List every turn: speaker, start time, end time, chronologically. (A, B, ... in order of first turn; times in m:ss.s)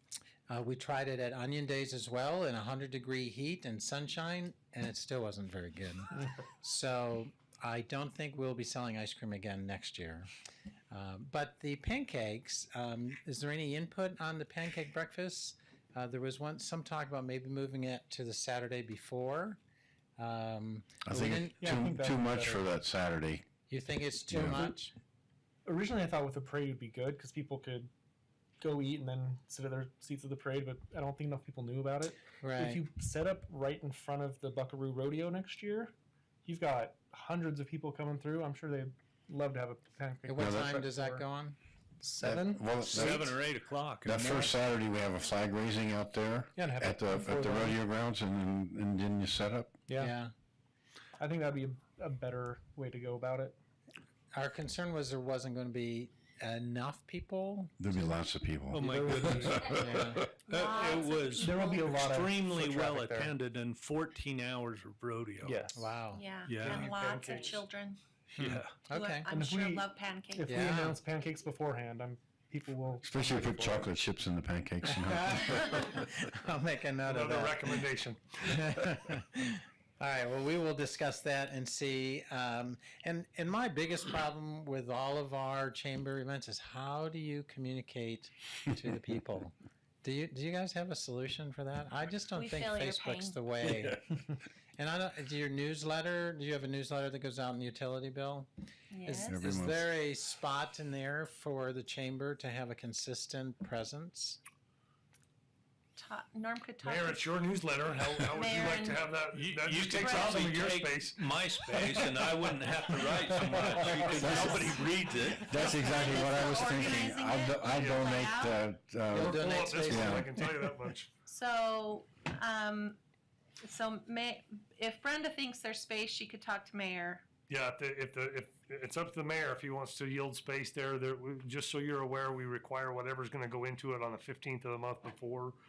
0:00.5-0:10.3 A
0:10.9-0:19.6 A
0:20.2-0:21.7 A
0:21.0-0:23.5 B
0:21.2-0:22.6 C
0:23.7-0:24.9 A
0:24.3-0:24.6 B
0:25.7-0:27.9 C
0:28.6-0:35.9 C
0:32.4-0:32.8 A
0:36.4-0:41.2 C
0:40.3-0:41.6 A
0:40.4-0:40.7 B
0:42.0-0:43.3 C
0:42.2-0:43.3 B
0:42.8-0:44.3 D
0:44.0-0:49.8 B
0:44.1-0:44.6 A
0:46.6-0:47.8 C
0:49.9-0:50.1 C
0:50.0-0:50.3 A
0:51.2-0:53.6 C
0:54.3-0:58.0 A
0:57.8-1:00.2 B
0:58.7-1:05.6 D
0:58.8-0:59.8 C
0:59.6-1:00.3 A
1:00.5-1:01.9 E
1:01.4-1:02.5 C
1:02.5-1:03.3 A
1:05.4-1:05.9 C
1:05.7-1:06.2 A
1:06.1-1:08.0 E
1:06.4-1:06.8 D
1:06.6-1:07.6 F
1:08.3-1:08.8 D
1:08.4-1:09.3 A
1:08.8-1:10.7 E
1:09.3-1:13.9 C
1:10.5-1:11.0 A
1:13.0-1:15.7 B
1:14.9-1:17.9 A
1:17.0-1:18.4 F
1:18.4-1:34.2 A
1:32.3-1:33.5 E
1:34.8-1:38.5 A
1:38.9-1:39.5 E
1:39.0-1:44.4 A
1:39.2-1:39.9 B
1:46.0-1:47.3 E
1:46.8-1:52.4 F
1:48.3-1:49.2 E
1:49.2-1:56.0 D
1:50.0-1:50.4 E
1:53.5-1:54.0 F
1:54.1-1:54.7 B
1:54.3-1:54.8 E
1:55.4-2:00.4 B
1:55.5-1:58.6 E
1:56.3-1:56.6 F
1:57.7-1:58.1 F
1:59.1-2:00.3 A
1:59.2-2:01.1 F
2:01.3-2:03.0 E
2:03.6-2:07.3 E
2:07.5-2:15.6 F